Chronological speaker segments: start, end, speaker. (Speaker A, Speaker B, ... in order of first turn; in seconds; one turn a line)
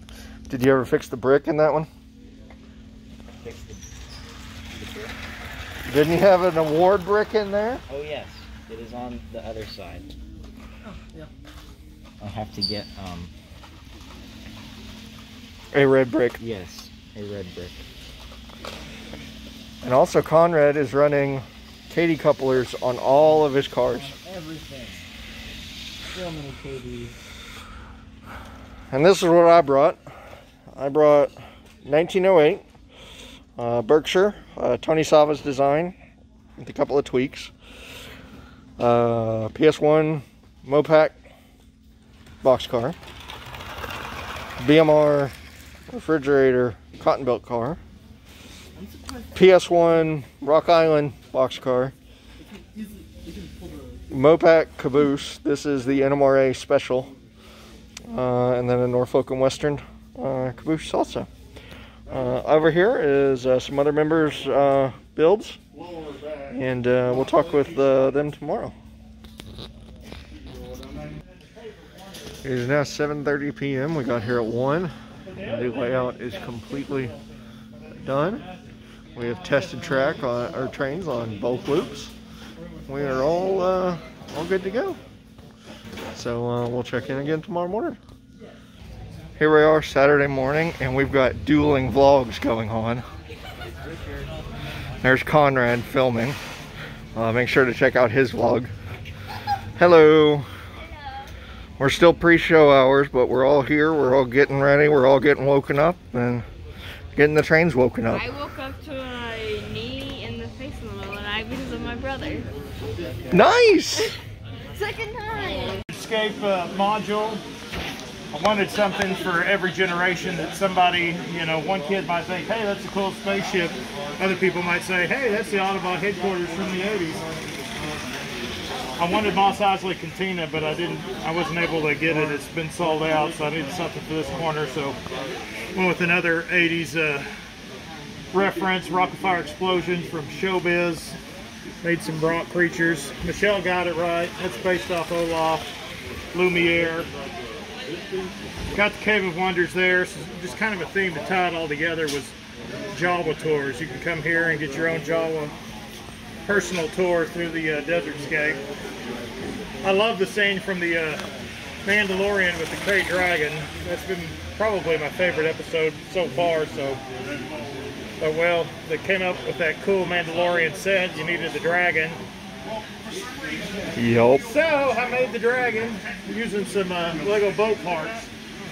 Speaker A: 0.5-1.9
Speaker B: 3.4-3.9
Speaker B: 4.8-5.1
Speaker A: 5.9-7.8
Speaker B: 7.9-10.1
Speaker B: 12.2-13.3
Speaker A: 15.7-16.4
Speaker B: 16.4-17.8
Speaker A: 19.8-24.1
Speaker B: 23.1-25.1
Speaker B: 26.1-27.1
Speaker A: 28.9-30.0
Speaker A: 30.7-32.6
Speaker A: 33.6-36.0
Speaker A: 36.6-37.5
Speaker A: 38.8-41.2
Speaker A: 42.4-43.0
Speaker A: 44.6-45.3
Speaker A: 45.9-47.8
Speaker A: 49.3-51.9
Speaker A: 54.1-57.1
Speaker A: 58.1-61.3
Speaker A: 62.1-65.6
Speaker A: 66.5-68.7
Speaker A: 72.4-77.2
Speaker A: 77.9-78.5
Speaker A: 79.2-82.1
Speaker A: 82.9-85.0
Speaker A: 86.1-88.0
Speaker A: 89.4-93.0
Speaker A: 95.0-96.4
Speaker A: 97.2-98.7
Speaker A: 99.8-100.5
Speaker A: 101.8-106.5
Speaker A: 107.2-108.3
Speaker C: 108.1-112.5
Speaker A: 113.3-114.2
Speaker C: 114.7-115.8
Speaker D: 115.9-117.4
Speaker D: 118.3-127.2
Speaker D: 129.0-135.0
Speaker D: 135.7-137.3
Speaker D: 138.3-141.2
Speaker D: 141.8-145.7
Speaker D: 146.3-147.1
Speaker D: 148.7-152.3
Speaker D: 152.9-155.5
Speaker D: 156.4-158.6
Speaker D: 159.8-161.2
Speaker D: 161.8-167.0
Speaker D: 168.2-172.2
Speaker A: 173.9-174.4
Speaker D: 174.4-178.3